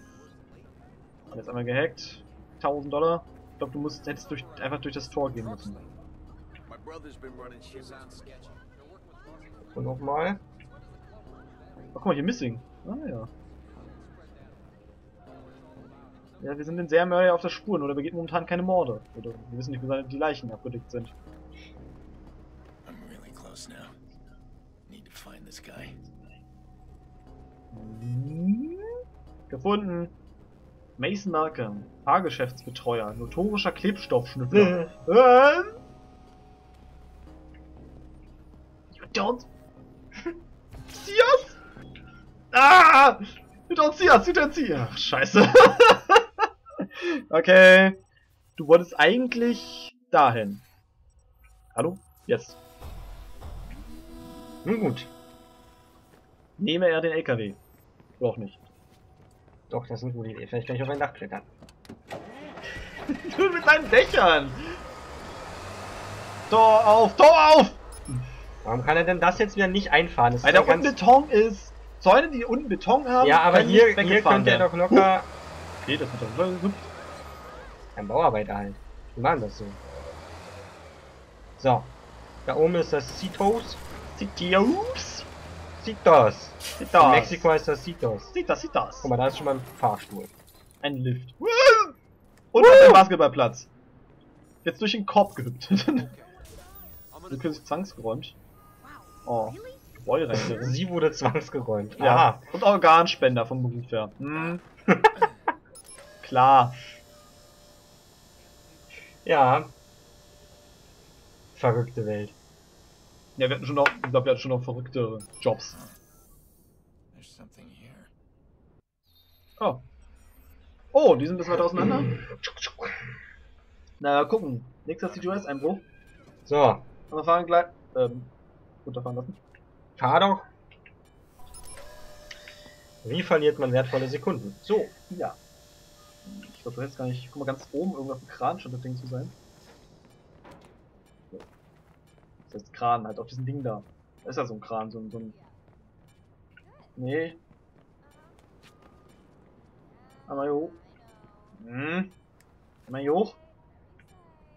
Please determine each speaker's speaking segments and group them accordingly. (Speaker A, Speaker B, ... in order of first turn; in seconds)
Speaker A: 1.3-5.8, 11.9-13.3, 16.4-21.1, 27.7-28.9, 29.5-30.1, 31.0-35.8, 38.9-39.5, 40.9-41.6, 42.5-46.3, 46.8-48.0, 48.6-50.7, 51.7-52.6, 56.6-57.6, 58.2-58.6, 63.1-64.8, 66.5-67.8, 70.4-75.1, 75.8-76.9, 84.2-85.3, 86.8-87.5, 88.3-89.1, 90.8-92.0, 92.5-93.7, 94.7-96.1, 97.3-98.4, 99.2-100.8, 102.0-104.6, 106.2-106.8, 113.4-115.8, 119.6-119.8, 120.9-122.2, 124.0-125.9, 127.1-128.3, 128.8-129.4, 134.6-135.4, 136.2-139.4, 142.5-145.4, 147.0-147.4, 150.3-150.8, 151.6-152.1, 152.9-153.4
Speaker B: 9.8-10.4, 34.5-34.9, 54.6-55.1, 59.7-61.5, 68.6-71.0, 73.2-75.3, 78.0-79.8, 81.6-83.8, 85.8-88.3, 89.0-90.3, 92.6-93.0, 100.3-102.5, 109.2-109.7, 111.5-112.3, 121.8-123.0, 126.5-126.9, 130.0-130.5, 133.0-134.6
Speaker C: 22.9-23.9, 24.9-26.1, 115.7-116.0, 117.1-118.1